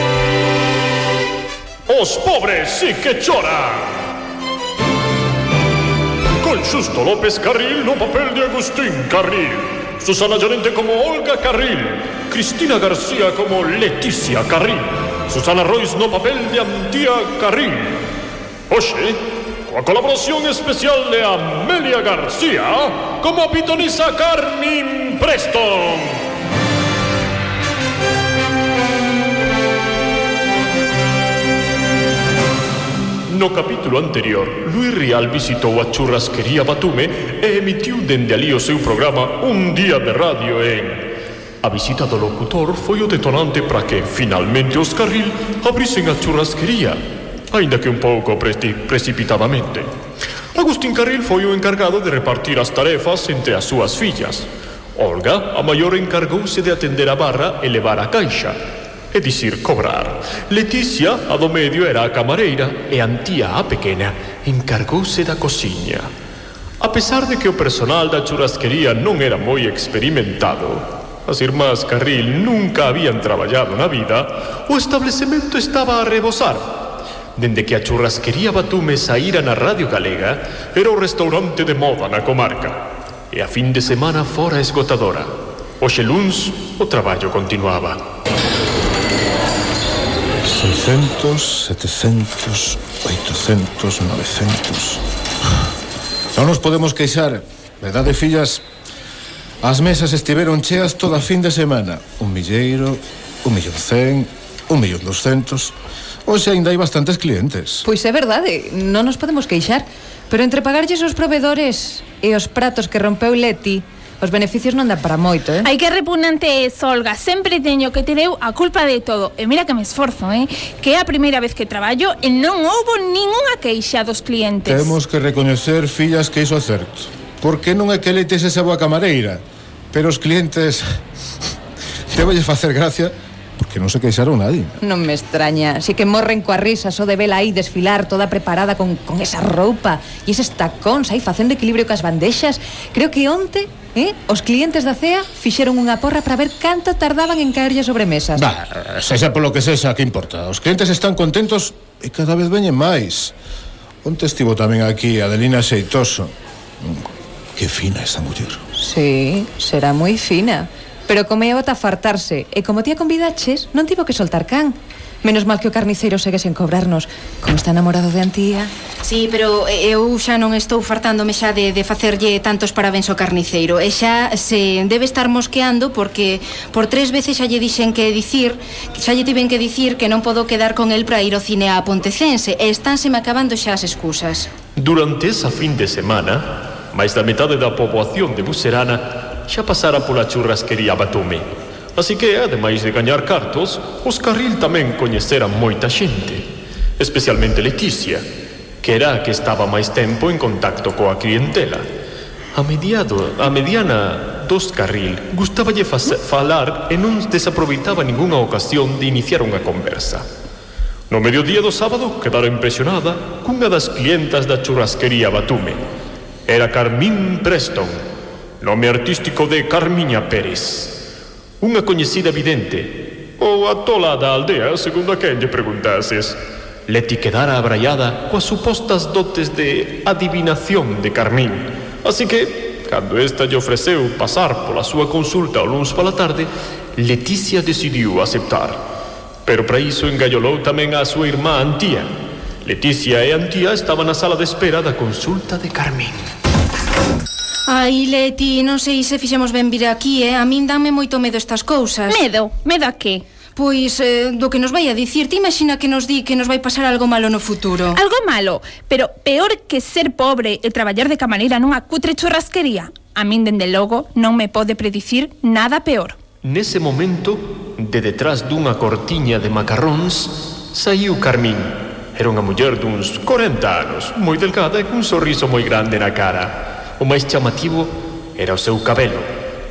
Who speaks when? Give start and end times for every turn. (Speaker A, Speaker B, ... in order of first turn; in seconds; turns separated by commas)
Speaker A: 1.9-4.0, Speaker A: 6.4-18.0, Speaker A: 18.7-26.2, Speaker A: 33.3-41.1, Speaker A: 41.6-47.0, Speaker A: 47.5-49.9, Speaker A: 50.5-58.6, Speaker A: 59.1-66.1, Speaker A: 66.8-76.7, Speaker A: 77.4-88.0, Speaker B: 90.5-95.0, Speaker B: 96.3-98.6, Speaker B: 99.6-105.7, Speaker B: 106.3-107.9, Speaker C: 107.9-115.7, Speaker D: 115.6-125.0, Speaker B: 124.7-130.8, Speaker B: 132.1-134.8, Speaker C: 134.8-148.5, Speaker B: 148.3-153.3, Speaker B: 154.0-158.6, Speaker C: 158.8-168.7, Speaker E: 169.0-184.5, Speaker A: 184.8-196.4, Speaker A: 197.0-198.2, Speaker A: 198.8-201.8, Speaker A: 202.5-210.2, Speaker A: 211.1-215.8, Speaker A: 216.5-218.0, Speaker A: 218.6-221.0, Speaker A: 221.6-238.8, Speaker A: 239.4-242.1, Speaker A: 242.6-246.3, Speaker E: 247.7-252.2, Speaker D: 252.1-253.2, Speaker E: 253.6-258.0, Speaker D: 257.9-266.2, Speaker A: 266.4-279.3